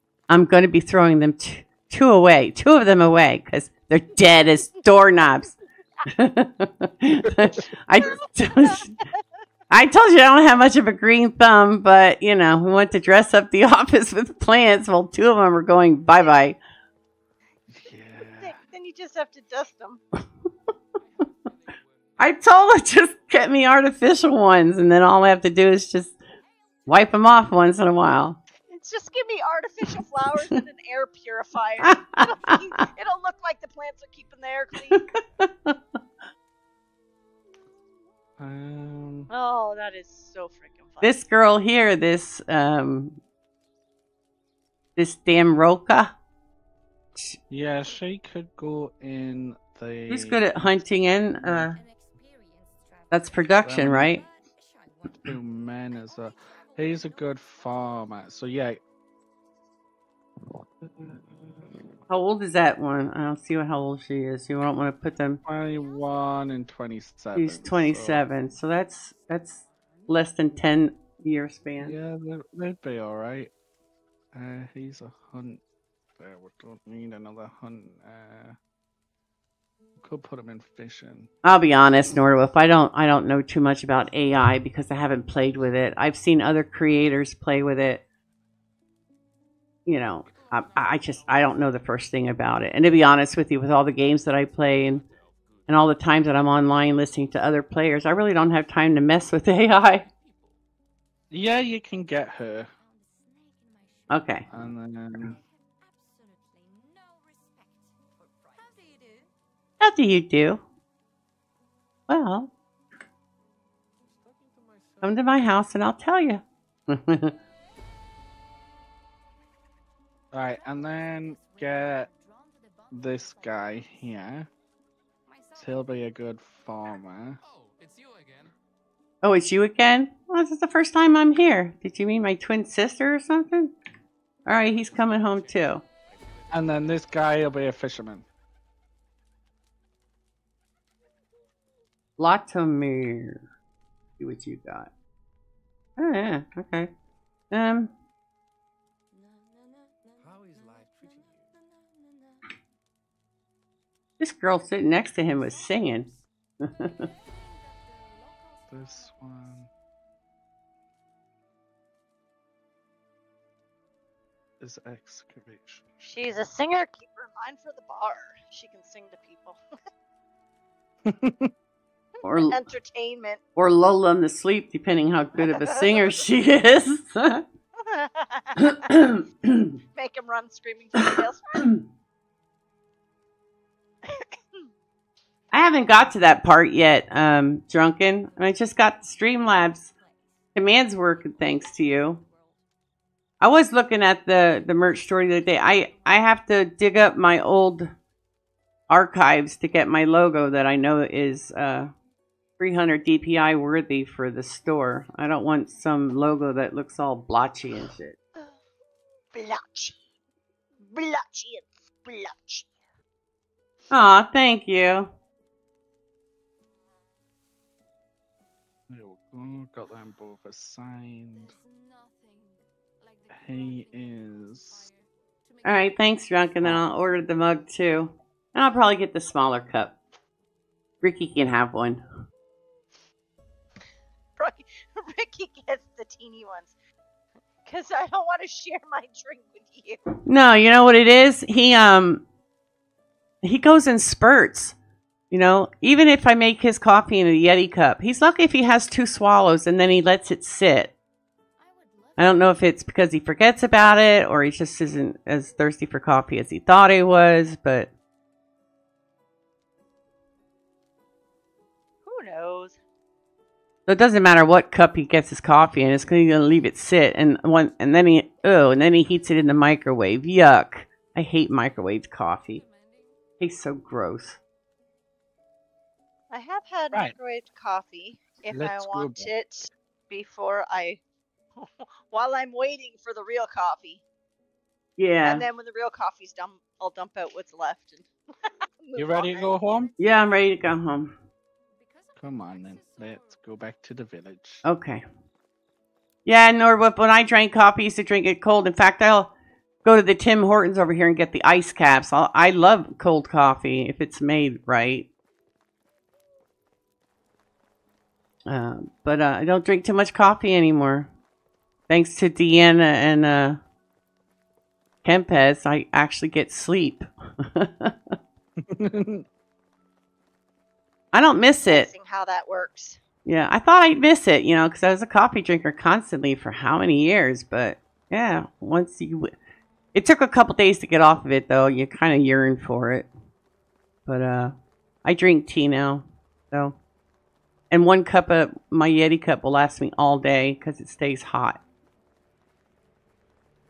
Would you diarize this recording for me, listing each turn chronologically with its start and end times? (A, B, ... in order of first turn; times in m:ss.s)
0:00.3-0:05.5 A
0:06.1-0:09.0 A
0:08.0-0:08.9 B
0:09.7-0:16.6 A
0:17.7-0:18.6 C
0:18.4-0:20.0 B
0:21.0-0:23.4 D
0:22.2-0:26.2 A
0:26.4-0:27.8 E
0:26.9-0:28.4 A
0:28.7-0:35.0 B
0:31.8-0:32.6 A
0:38.4-0:39.3 C
0:39.3-0:41.3 B
0:41.0-0:43.2 A
0:45.0-0:46.1 A
0:47.5-0:50.5 C
0:50.1-0:51.8 A
0:50.7-0:59.8 E
0:51.4-0:51.7 C
0:53.1-0:54.2 A
0:53.6-0:54.2 C
0:55.2-0:58.8 C
1:00.8-1:01.6 C
1:02.1-1:05.4 A
1:05.4-1:08.2 C
1:05.5-1:06.5 E
1:07.4-1:11.9 A
1:09.1-1:09.4 E
1:09.6-1:10.3 D
1:11.8-1:13.5 C
1:14.3-1:15.6 C
1:16.2-1:18.6 C
1:20.0-1:21.3 C
1:21.4-1:28.0 A
1:29.9-1:35.0 A
1:30.2-1:40.6 D
1:35.7-1:40.1 A
1:41.3-1:42.7 C
1:42.6-1:49.3 E
1:44.1-1:44.5 A
1:44.5-1:45.4 C
1:49.8-1:50.6 A
1:52.1-1:52.5 A
1:54.0-1:55.6 D
1:55.0-1:57.3 A
2:00.3-2:02.1 C
2:00.4-2:04.4 E
2:02.9-2:04.5 C
2:05.2-2:06.0 E
2:05.6-2:07.4 C
2:07.4-2:08.6 D
2:09.2-2:13.7 A
2:14.5-2:15.8 A
2:14.6-2:17.6 D
2:16.5-2:18.2 C
2:22.2-2:23.4 A
2:24.2-2:24.9 A
2:26.0-2:26.9 A
2:27.5-2:27.9 A
2:29.1-2:32.6 E
2:30.2-2:31.6 D
2:34.2-2:36.1 A
2:35.0-2:39.7 E
2:36.6-2:37.1 A
2:38.7-2:39.7 C
2:44.6-2:45.8 C
2:46.0-2:49.6 B
2:51.1-2:51.5 C
2:52.2-2:53.4 B
2:52.2-2:52.6 A
2:53.6-2:57.4 A
2:55.4-2:55.9 B
2:57.8-2:59.1 B
2:58.7-2:59.7 A
3:00.0-3:01.7 B
3:01.0-3:01.7 A
3:04.0-3:04.4 B
3:05.5-3:09.9 A
3:08.2-3:12.6 E
3:10.6-3:12.2 A
3:13.4-3:17.9 A
3:15.6-3:16.2 E
3:18.9-3:21.9 A
3:22.6-3:28.2 A
3:29.3-3:30.0 B
3:30.9-3:32.7 B
3:33.9-3:35.1 A
3:38.9-3:41.6 C
3:41.3-3:47.3 E
3:43.3-3:44.8 C
3:45.6-3:49.9 A
3:51.0-3:52.0 A
3:54.4-3:56.7 B
3:57.6-4:00.0 B
4:00.3-4:02.2 A
4:03.4-4:04.8 A
4:05.3-4:10.9 A
4:11.6-4:14.2 E
4:12.2-4:17.9 A
4:22.0-4:22.8 B
4:23.9-4:32.6 A
4:28.8-4:29.6 E
4:32.4-4:33.4 E
4:33.4-4:34.4 A
4:36.3-4:41.0 B
4:38.5-4:39.3 C
4:41.6-4:44.0 B
4:45.0-4:45.4 A
4:45.2-4:49.5 B
4:49.0-4:49.9 C
4:49.4-4:51.0 E
4:50.0-4:51.1 A
4:51.8-4:53.7 E
4:52.2-4:54.6 C
4:54.6-4:55.0 A
4:56.3-4:59.3 A
4:59.8-5:05.1 A
5:08.5-5:11.1 A
5:11.9-5:13.6 A
5:15.0-5:18.0 A
5:18.6-5:19.2 C
5:21.1-5:21.9 A
5:21.6-5:23.0 B
5:23.2-5:29.3 A
5:30.0-5:33.1 A
5:34.1-5:36.8 A
5:37.7-5:41.6 A